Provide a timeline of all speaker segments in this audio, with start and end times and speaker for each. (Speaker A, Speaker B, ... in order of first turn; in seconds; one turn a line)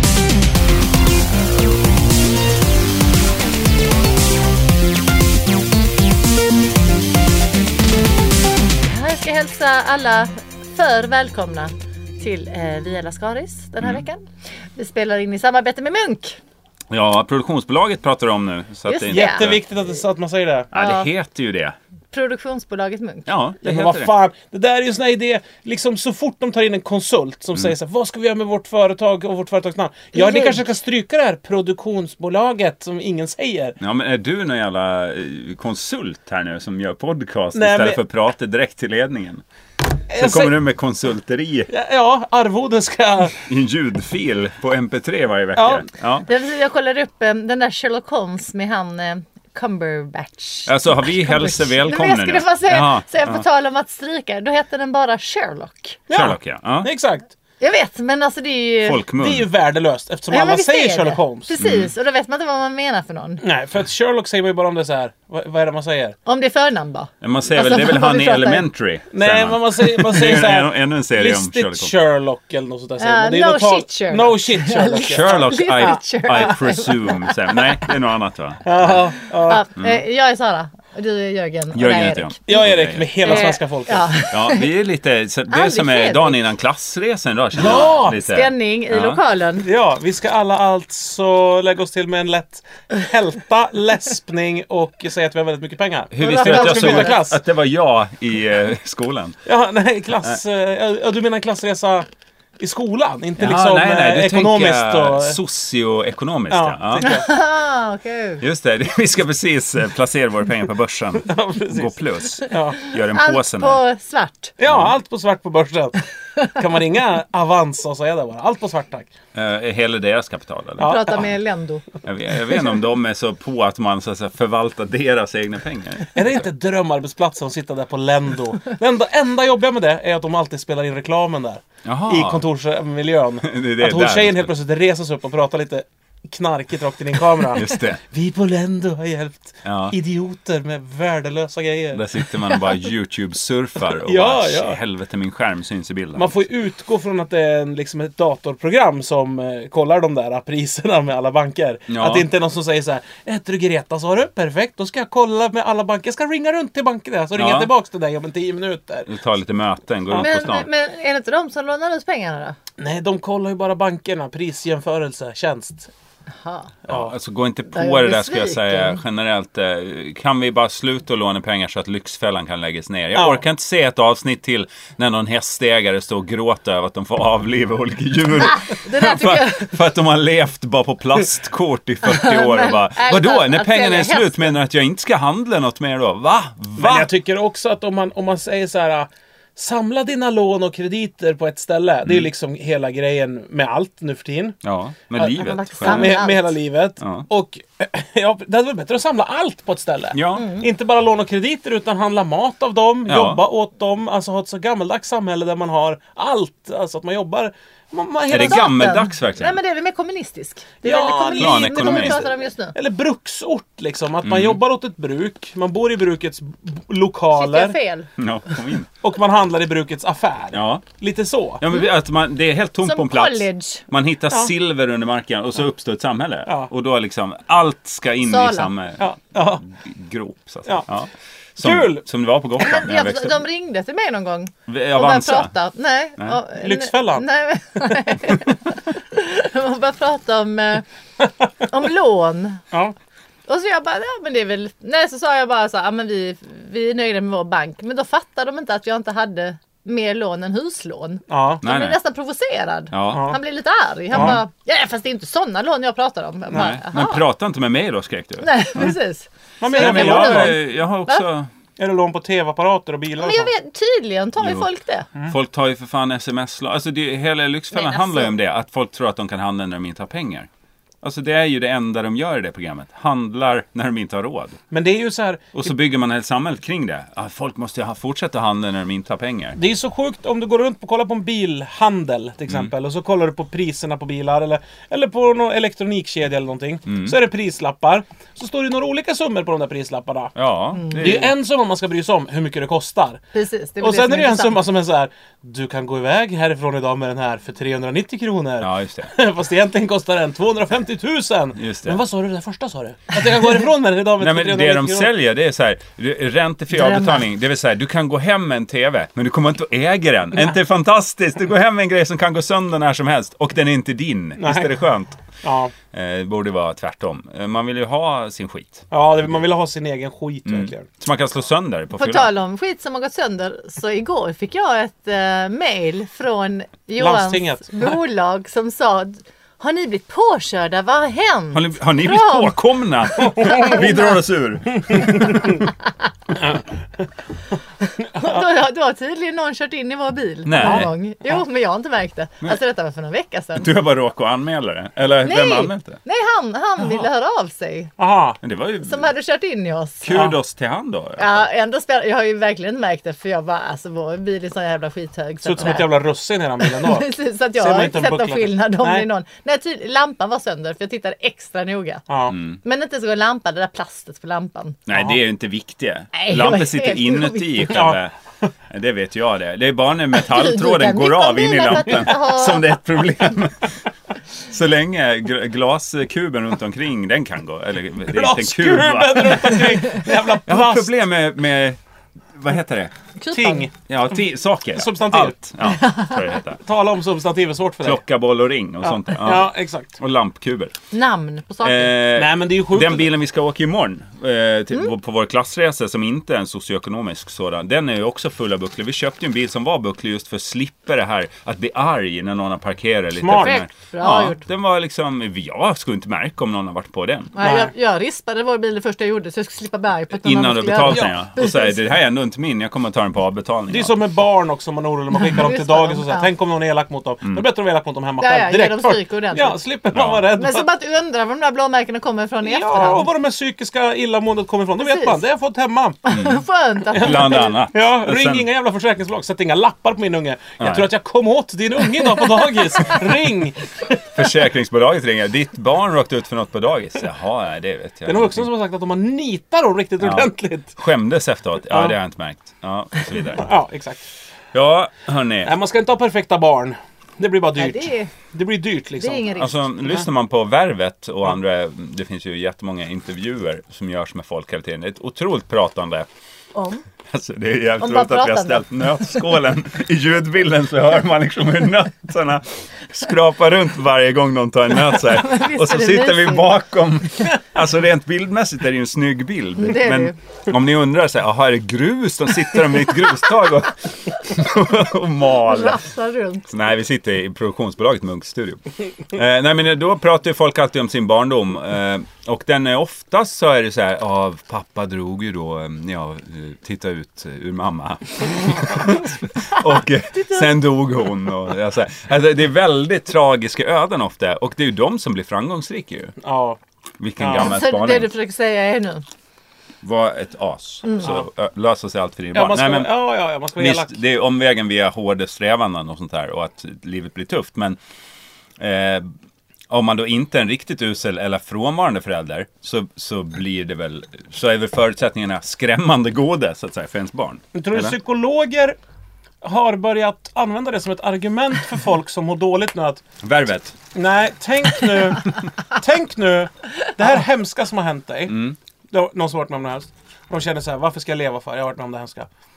Speaker A: 8.9-14.2
Speaker A: 14.8-16.4
Speaker B: 16.9-19.7
Speaker A: 18.9-19.6
Speaker C: 19.1-20.7
Speaker B: 20.7-21.7
Speaker A: 20.7-21.1
Speaker A: 22.1-23.3
Speaker B: 23.3-24.1
Speaker C: 23.6-33.8
Speaker A: 30.1-30.7
Speaker B: 33.8-39.4
Speaker C: 37.5-38.0
Speaker C: 40.1-40.5
Speaker B: 40.1-41.7
Speaker C: 41.7-43.5
Speaker B: 43.5-46.3
Speaker C: 45.5-45.9
Speaker A: 46.3-56.0
Speaker B: 50.7-53.4
Speaker C: 56.1-57.3
Speaker B: 56.1-56.9
Speaker A: 57.6-59.0
Speaker B: 58.8-59.5
Speaker C: 59.2-61.5
Speaker A: 60.3-63.4
Speaker B: 61.6-61.9
Speaker C: 63.4-66.2
Speaker A: 66.2-68.7
Speaker B: 67.2-71.9
Speaker C: 69.1-76.0
Speaker A: 73.0-77.8
Speaker B: 75.0-79.0
Speaker C: 78.6-79.6
Speaker A: 79.4-84.7
Speaker B: 81.7-83.4
Speaker C: 82.5-84.1
Speaker B: 84.3-89.2
Speaker A: 85.5-86.4
Speaker C: 87.6-88.2
Speaker A: 87.7-89.7
Speaker C: 89.6-97.4
Speaker B: 96.1-99.4
Speaker A: 96.2-97.2
Speaker C: 99.5-102.1
Speaker C: 102.6-105.4
Speaker B: 103.4-107.1
Speaker C: 106.5-107.3
Speaker A: 107.0-108.4
Speaker B: 108.4-113.8
Speaker C: 111.2-112.8
Speaker A: 113.1-114.5
Speaker C: 114.6-119.1
Speaker B: 114.7-114.9
Speaker B: 119.3-121.0
Speaker C: 120.8-121.3
Speaker A: 120.8-121.8
Speaker B: 122.0-126.5
Speaker C: 126.2-142.1
Speaker B: 131.8-132.4
Speaker B: 133.4-134.5
Speaker B: 137.5-138.0
Speaker B: 139.7-140.0
Speaker B: 141.9-146.4
Speaker C: 143.9-144.8
Speaker C: 146.2-159.1
Speaker B: 151.9-152.2
Speaker B: 157.3-157.7
Speaker B: 159.1-160.7
Speaker A: 160.1-162.6
Speaker C: 162.8-165.9
Speaker A: 166.4-166.7
Speaker C: 166.8-167.1
Speaker B: 166.9-187.1
Speaker A: 167.7-169.0
Speaker C: 173.1-173.4
Speaker A: 178.4-179.7
Speaker A: 182.0-184.5
Speaker C: 186.8-194.6
Speaker B: 194.6-196.2
Speaker A: 195.2-196.6
Speaker C: 195.8-208.7
Speaker B: 197.0-197.2
Speaker B: 200.1-200.5
Speaker A: 200.3-200.7
Speaker B: 203.1-203.4
Speaker B: 208.3-209.6
Speaker A: 208.3-212.7
Speaker C: 210.8-217.8
Speaker B: 211.3-212.2
Speaker B: 214.2-214.6
Speaker A: 217.3-218.1
Speaker B: 218.2-218.9
Speaker C: 219.0-221.6
Speaker B: 220.5-220.8
Speaker B: 221.6-229.0
Speaker A: 222.8-223.8
Speaker C: 226.5-226.7
Speaker A: 228.2-228.7
Speaker C: 229.0-229.6
Speaker B: 229.7-233.4
Speaker C: 231.6-232.0
Speaker A: 232.6-240.8
Speaker B: 234.7-235.5
Speaker C: 236.6-237.3
Speaker A: 241.6-242.6
Speaker A: 243.5-257.2
Speaker C: 251.3-251.6
Speaker B: 251.6-252.0
Speaker B: 252.9-253.3
Speaker C: 253.1-253.4
Speaker C: 254.1-254.4
Speaker B: 254.1-254.4
Speaker B: 256.5-258.9
Speaker A: 258.4-261.2
Speaker C: 259.6-260.6
Speaker B: 259.8-261.5
Speaker C: 261.8-263.5
Speaker A: 263.2-265.1
Speaker B: 264.4-264.6
Speaker B: 265.3-270.5
Speaker A: 267.7-268.3
Speaker B: 271.0-274.6
Speaker C: 274.7-275.7
Speaker B: 275.6-279.6
Speaker C: 279.6-290.3
Speaker B: 286.9-287.1
Speaker B: 290.4-291.3
Speaker A: 290.7-291.2
Speaker C: 291.0-293.2
Speaker A: 293.3-294.6
Speaker C: 293.8-305.1
Speaker B: 298.6-299.1
Speaker B: 301.6-302.0
Speaker B: 304.2-315.2
Speaker A: 306.8-307.2
Speaker C: 314.4-314.8
Speaker C: 315.4-315.7
Speaker B: 315.9-318.9
Speaker C: 318.9-320.9
Speaker B: 320.5-322.3
Speaker A: 321.9-332.6
Speaker C: 327.0-327.9
Speaker B: 331.5-335.4
Speaker C: 333.2-333.8
Speaker A: 333.4-334.1
Speaker C: 335.0-335.5
Speaker A: 337.9-343.7
Speaker B: 340.4-340.9
Speaker C: 340.6-340.9
Speaker B: 343.6-346.0
Speaker A: 345.2-347.9
Speaker C: 348.0-348.4
Speaker B: 348.4-349.1
Speaker A: 348.8-350.2
Speaker B: 350.0-351.2
Speaker A: 351.2-355.9
Speaker C: 355.4-359.1
Speaker A: 356.6-364.8
Speaker C: 362.1-362.4
Speaker B: 362.3-362.6
Speaker B: 364.9-368.1
Speaker C: 364.9-365.2
Speaker A: 366.1-367.7
Speaker C: 367.7-368.0
Speaker B: 368.7-373.8
Speaker A: 370.1-372.7
Speaker B: 374.5-381.8
Speaker C: 378.1-380.9
Speaker B: 382.3-382.9
Speaker A: 383.2-383.7
Speaker C: 383.3-383.8
Speaker B: 383.9-386.6
Speaker C: 384.8-385.4
Speaker A: 385.6-386.2
Speaker C: 386.6-388.0
Speaker B: 387.8-390.7
Speaker C: 388.8-390.0
Speaker A: 390.9-391.9
Speaker B: 391.6-407.4
Speaker C: 392.1-393.1
Speaker C: 403.2-403.6
Speaker A: 403.3-404.4
Speaker A: 407.4-411.8
Speaker C: 407.4-407.7
Speaker B: 410.2-414.0
Speaker C: 410.9-411.2
Speaker C: 413.7-420.7
Speaker A: 415.1-416.2
Speaker A: 418.2-419.6
Speaker B: 419.9-420.3
Speaker A: 420.3-423.1
Speaker C: 422.4-426.1
Speaker A: 424.8-425.2
Speaker A: 426.0-427.5
Speaker B: 426.1-426.4
Speaker B: 426.9-428.5
Speaker C: 426.9-434.2
Speaker B: 430.6-430.9
Speaker B: 434.1-438.5
Speaker C: 438.1-440.8
Speaker B: 440.0-443.5
Speaker C: 441.7-441.9
Speaker C: 443.4-444.0
Speaker B: 444.5-445.5
Speaker C: 445.4-449.4
Speaker A: 447.6-448.1
Speaker A: 449.0-449.9
Speaker B: 449.4-456.1
Speaker A: 456.5-456.8
Speaker B: 457.1-475.8
Speaker A: 457.8-458.7
Speaker A: 464.9-466.6
Speaker A: 469.6-470.1
Speaker A: 475.4-476.5
Speaker B: 476.5-496.1
Speaker A: 490.1-490.5
Speaker C: 496.2-496.6
Speaker B: 497.0-498.1
Speaker C: 497.2-497.6
Speaker A: 497.4-499.0
Speaker B: 499.8-502.9
Speaker C: 502.3-503.9
Speaker B: 503.6-507.8
Speaker B: 508.6-509.1
Speaker B: 509.7-518.0
Speaker C: 517.5-518.8
Speaker C: 519.4-523.0
Speaker B: 523.2-523.8
Speaker C: 523.9-532.3
Speaker B: 528.3-528.5